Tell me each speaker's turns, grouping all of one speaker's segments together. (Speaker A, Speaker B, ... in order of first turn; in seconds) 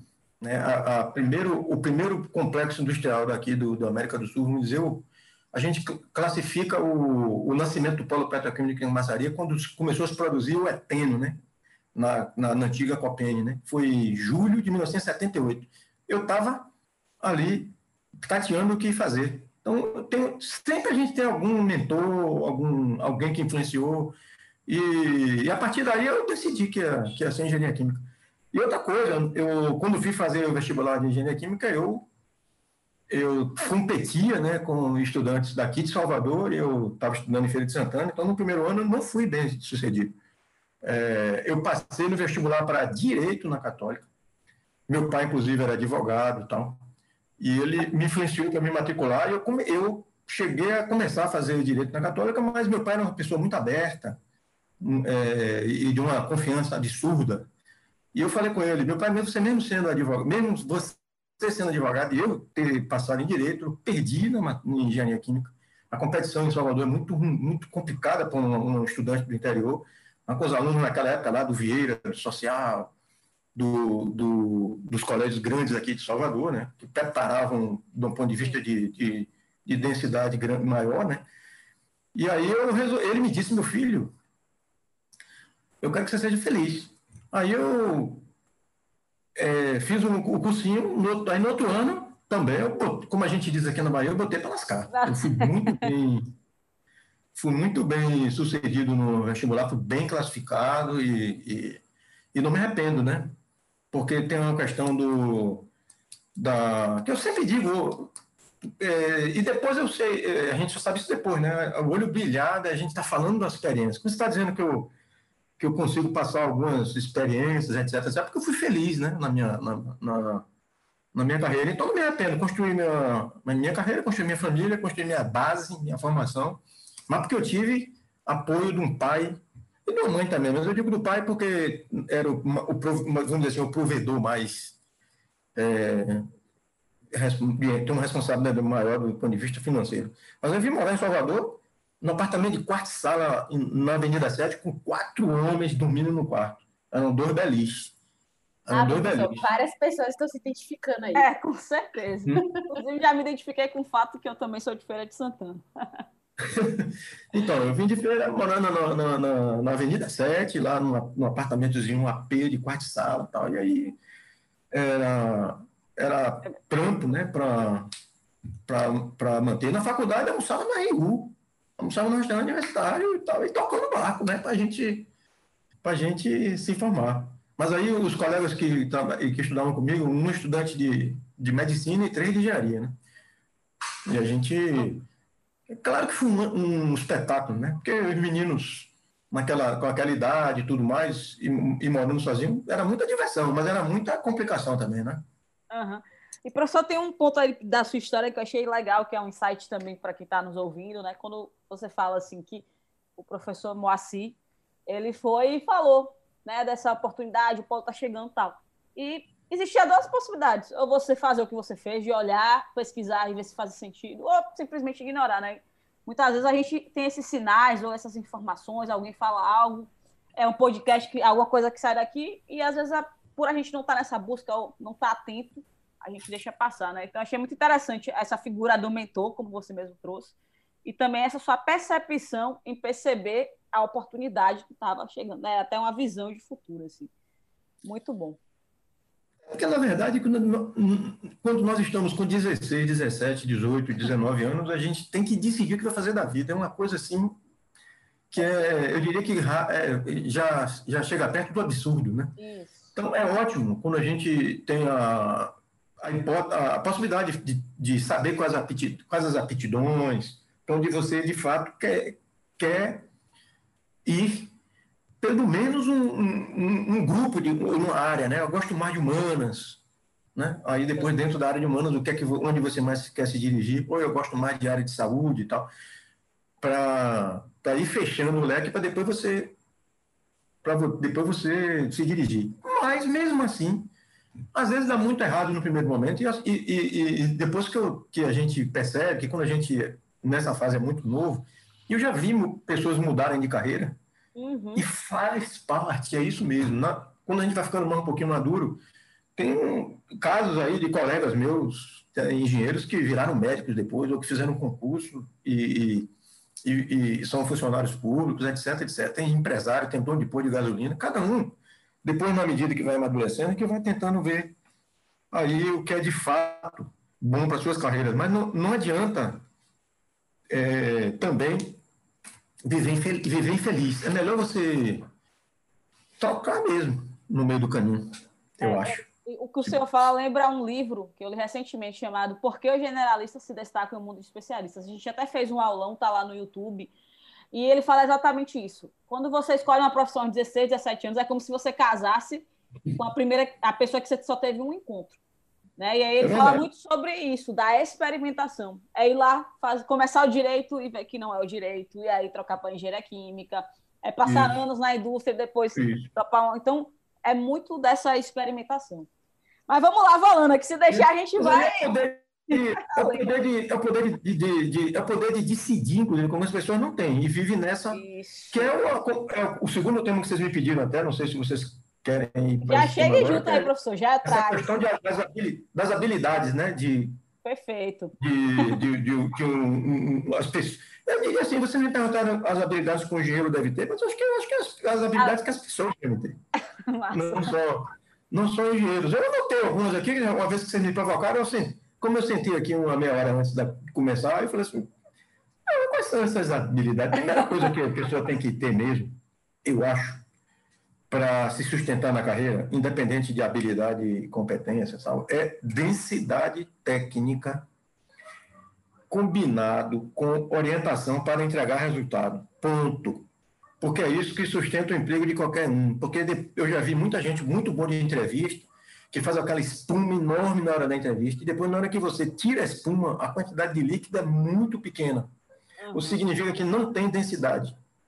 Speaker A: 0.4-11.4, 11.9-16.7, 17.2-24.1, 24.6-32.1, 33.1-40.1, 40.8-44.1, 44.9-46.8, 47.4-54.2, 54.8-57.5, 58.1-72.9, 73.5-81.2, 82.1-84.1, 85.8-88.2, 89.4-96.3, 97.3-101.8, 102.3-103.3, 103.9-105.7, 106.3-108.1, 108.8-114.9, 115.6-120.4, 121.1-134.8, 135.5-136.2, 137.1-147.9, 148.7-149.5, 156.4-164.0, 164.7-167.9, 168.7-175.1, 175.8-182.9, 184.1-185.1, 185.7-195.2, 239.5-247.4, 248.3-252.3, 252.9-263.1, 264.0-264.5, 265.2-269.8, 270.4-275.7, 276.6-279.5, 280.6-283.9, 284.5-294.0, 294.8-298.8, 299.4-306.1, 306.6-314.5, 315.3-319.4, 320.5-321.8, 322.6-325.0, 326.2-329.1, 346.2-346.7, 354.2-354.6, 355.8-356.1, 360.9-373.7, 374.2-377.1, 378.2-386.4, 387.1-394.9, 395.7-400.2, 401.1-407.7, 409.1-413.2, 413.8-425.3, 425.9-427.8
Speaker B: 94.9-95.9, 151.2-155.6, 195.7-202.7, 203.2-230.3, 230.8-237.1, 237.8-238.4, 252.4-252.9, 294.4-294.9, 328.6-336.9, 337.5-345.2, 345.8-359.1, 359.7-361.9, 362.5-363.3, 367.9-368.8, 372.6-374.8, 377.4-378.8, 386.9-387.6, 425.8-426.2
Speaker C: 148.7-151.3